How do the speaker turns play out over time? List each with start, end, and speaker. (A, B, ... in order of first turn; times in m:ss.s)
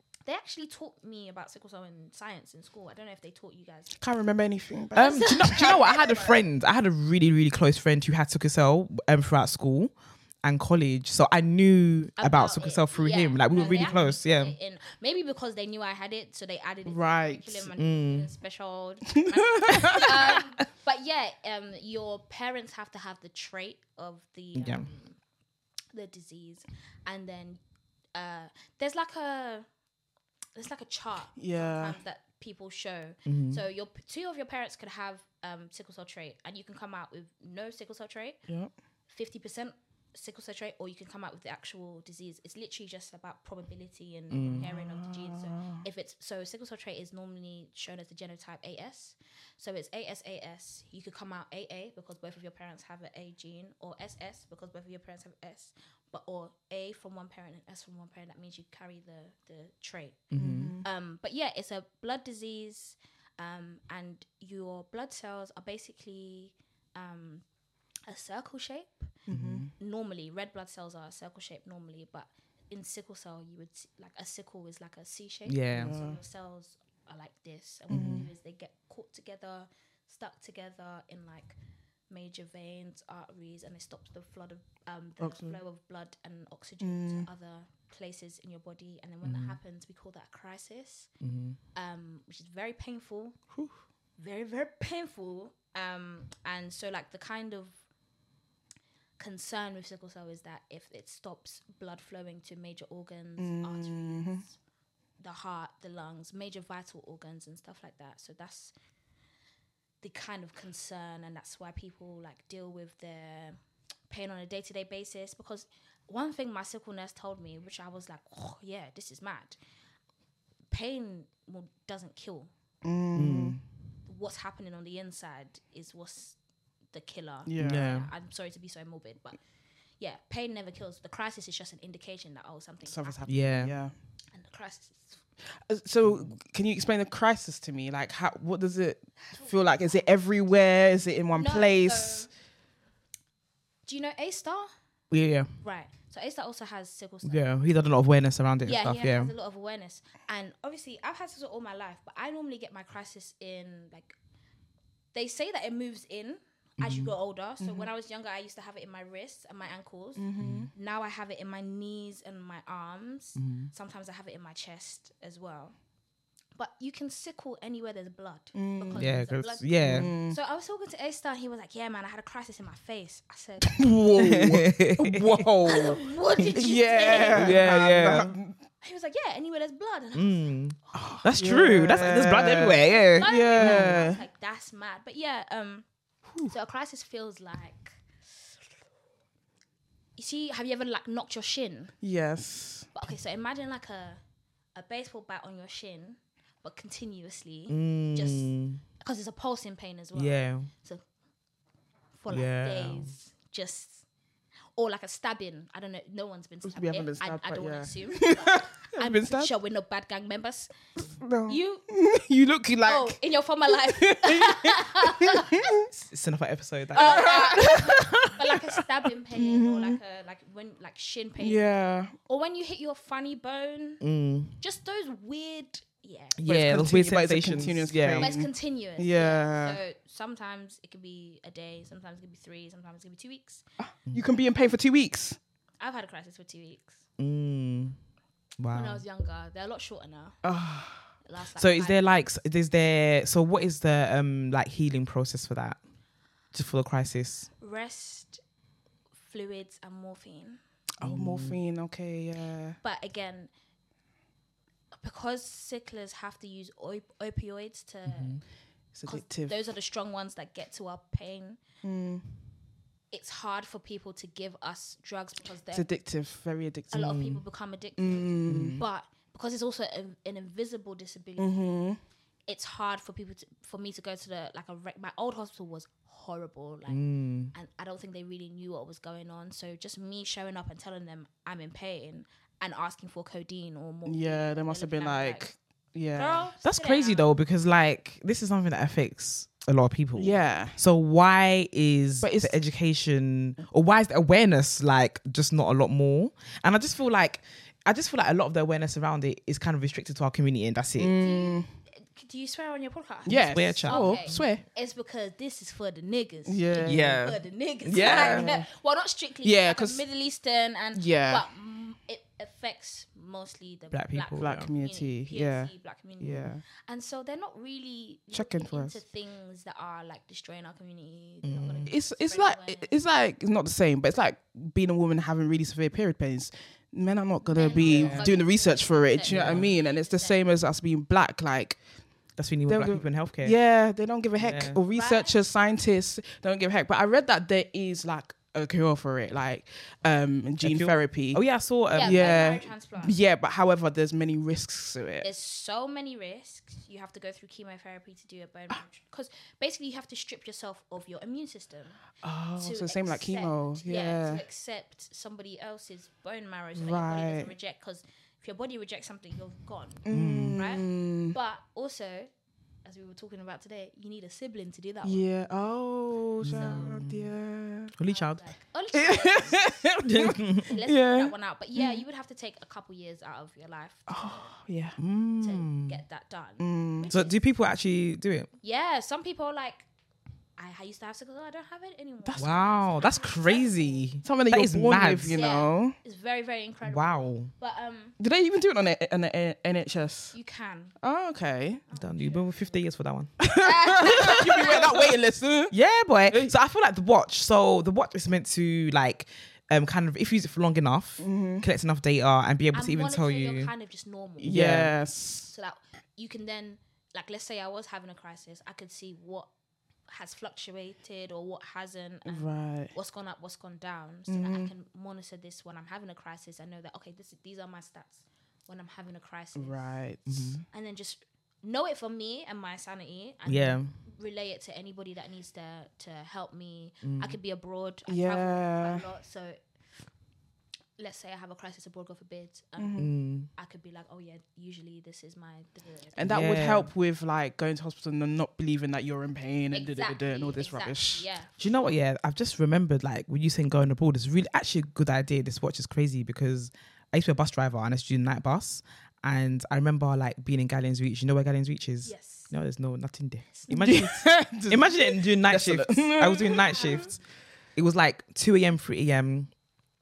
0:00.3-0:04.0 A
0:04.0-0:05.8 B
0:05.0-0:14.6 C
0:05.0-0:06.4 A
0:12.2-0:25.2 A
0:13.6-0:13.9 B
0:16.9-0:17.7 B
0:17.8-0:18.3 C
0:19.1-0:20.4 B
0:24.6-0:24.9 C
0:25.9-0:27.6 A
0:28.2-0:29.7 A
0:30.6-0:38.4 A
0:31.4-0:32.0 B
0:33.3-0:33.6 C
0:38.5-0:38.7 B
0:39.1-1:07.4 A
0:44.3-0:44.7 C
0:44.6-0:45.8 B
1:00.3-1:00.8 C
1:00.4-1:00.9 B
1:08.1-1:09.2 A
1:09.3-1:09.7 B
1:09.3-1:09.7 C
1:09.8-1:21.6 A
1:15.5-1:16.0 C
1:15.8-1:16.2 B
1:17.9-1:18.3 B
1:17.9-1:18.3 C
1:22.1-1:31.1 A
1:25.2-1:25.6 B
1:26.8-1:27.3 B
1:29.2-1:29.6 C
1:31.2-1:31.6 C
1:31.8-1:33.4 A
1:34.2-1:37.8 A
1:39.2-1:44.5 A
1:43.4-1:44.4 B
1:45.2-1:48.7 A
1:50.0-1:59.6 A
2:00.7-2:02.5 A
2:02.8-2:03.6 B
2:03.2-2:03.6 C
2:04.1-2:06.4 A
2:06.9-2:09.4 A
2:07.4-2:07.9 B
2:07.6-2:08.1 C
2:10.0-2:13.4 A
2:12.8-2:13.9 B
2:13.3-2:13.7 C
2:14.3-2:15.2 A
2:15.7-2:22.3 B
2:21.4-2:22.3 A
2:23.9-2:24.7 A
2:25.1-2:25.5 C
2:25.6-2:27.5 A
2:27.2-2:29.3 C
2:28.6-2:34.2 A
2:35.1-2:45.8 A
2:36.8-2:37.1 C
2:37.6-2:37.9 B
2:40.2-2:40.7 B
2:40.4-2:40.7 C
2:43.4-2:43.7 C
2:46.6-2:53.9 A
2:48.6-2:49.1 B
2:49.0-2:50.1 C
2:49.8-2:50.4 B
2:53.6-2:58.6 B
2:54.2-2:55.6 C
2:55.6-2:57.7 A
2:57.3-2:58.4 C
2:58.8-3:00.4 A
3:00.1-3:04.0 C
3:00.9-3:04.2 B
3:02.9-3:05.9 A
3:06.4-3:08.0 A
3:10.2-3:11.9 A
3:12.0-3:12.9 B
3:12.9-3:14.2 A
3:14.8-3:21.0 A
3:17.7-3:18.8 C
3:20.1-3:20.7 C
3:22.2-3:24.0 A
3:22.3-3:23.1 C
3:24.8-3:30.7 A
3:26.6-3:29.5 B
3:31.1-3:35.9 B
3:31.5-3:31.8 A
3:32.8-3:35.8 A
3:35.9-3:37.7 C
3:36.9-3:41.6 A
3:37.0-3:40.0 B
3:41.4-3:42.2 B
3:42.3-3:44.0 A
3:44.0-3:44.6 C
3:44.6-3:46.4 A
3:46.4-3:48.3 C
3:46.4-3:49.8 B
3:48.2-3:53.6 A
3:53.8-3:55.4 B
3:55.8-3:57.0 A
3:57.2-3:58.0 C
3:58.6-3:59.0 C
3:58.7-4:00.4 A
4:00.4-4:01.1 B
4:01.2-4:02.1 A
4:01.6-4:05.8 C
4:06.5-4:07.5 C
4:07.6-4:08.4 A
4:09.2-4:10.6 A
4:11.0-4:12.8 B
4:11.0-4:11.6 C
4:12.8-4:13.5 A
4:15.0-4:18.4 A
4:18.1-4:18.4 C
4:18.9-4:19.6 B
4:19.0-4:21.6 A
4:21.8-4:22.2 B
4:23.1-4:25.9 A
4:25.7-4:27.3 B
4:26.9-4:31.9 A
4:27.0-4:27.4 C
4:28.0-4:28.8 B
4:28.5-4:28.8 C
4:31.4-4:32.0 B
4:32.5-4:37.0 A
4:36.9-4:37.5 C
4:37.5-4:45.5 A
4:44.1-4:46.5 B
4:46.2-4:47.3 A
4:46.6-5:01.2 C
4:50.2-4:50.8 B
4:52.2-4:52.6 B
5:01.0-5:01.7 B
5:01.2-5:23.0 A
5:03.3-5:04.6 B
5:03.3-5:04.5 C
5:06.5-5:07.2 B
5:06.8-5:08.5 C
5:08.0-5:08.7 B
5:09.4-5:10.0 B
5:10.9-5:11.4 B
5:13.9-5:14.7 C
5:14.4-5:16.6 B
5:18.3-5:19.0 B
5:21.4-5:21.9 C
5:21.9-5:31.8 B
5:27.5-5:30.4 A
5:27.7-5:28.3 C
5:29.3-5:29.7 C
5:32.4-5:33.6 C
5:32.7-5:41.4 B
5:34.4-5:34.8 C
5:34.9-5:35.3 A
5:40.6-5:42.3 C
5:41.9-5:43.2 A
5:42.0-5:45.3 B
5:45.2-5:52.0 A
5:52.2-5:54.4 B
5:52.6-6:02.3 A
5:56.8-5:57.5 B
6:00.0-6:01.4 B
6:00.1-6:00.6 C
6:02.8-6:05.3 A
6:05.0-6:07.9 B
6:06.4-6:07.3 C
6:06.5-6:07.0 A
6:08.0-6:08.4 C
6:08.1-6:09.8 A
6:08.9-6:12.0 B
6:10.0-6:10.7 C
6:10.6-6:14.4 A
6:14.1-6:15.0 B
6:15.0-6:16.0 C
6:15.4-6:17.4 A
6:16.6-6:17.1 B
6:17.1-6:18.5 C
6:18.6-6:19.9 A
6:20.6-6:24.1 A
6:22.3-6:25.4 C
6:24.2-6:26.0 B
6:25.3-6:28.2 A
6:26.8-6:27.5 C
6:28.2-6:30.4 B
6:30.3-6:31.0 A
6:31.0-6:31.8 B
6:31.9-6:32.8 A
6:31.9-6:33.4 C
6:33.4-6:35.7 B
6:33.6-6:35.1 A
6:34.0-6:34.8 C
6:35.7-6:43.7 C
6:41.2-6:41.7 B
6:42.7-6:44.6 A
6:44.4-6:45.5 B
6:44.4-6:44.9 C
6:45.5-6:49.5 A
6:50.1-7:00.0 A
6:52.3-6:52.9 B
6:54.3-6:54.7 B
6:59.6-7:00.6 B
7:00.3-7:00.6 C
7:00.7-7:09.6 A
7:03.5-7:04.0 C
7:07.0-7:07.4 C
7:08.1-7:09.1 B
7:11.0-7:16.3 A
7:12.8-7:13.1 B
7:13.0-7:13.5 C
7:16.2-7:21.2 B
7:16.3-7:16.9 C
7:19.7-7:21.9 A
7:21.6-7:37.2 C
7:32.0-7:32.5 A
7:33.7-7:37.0 B
7:36.6-7:37.0 A
7:37.8-7:39.5 C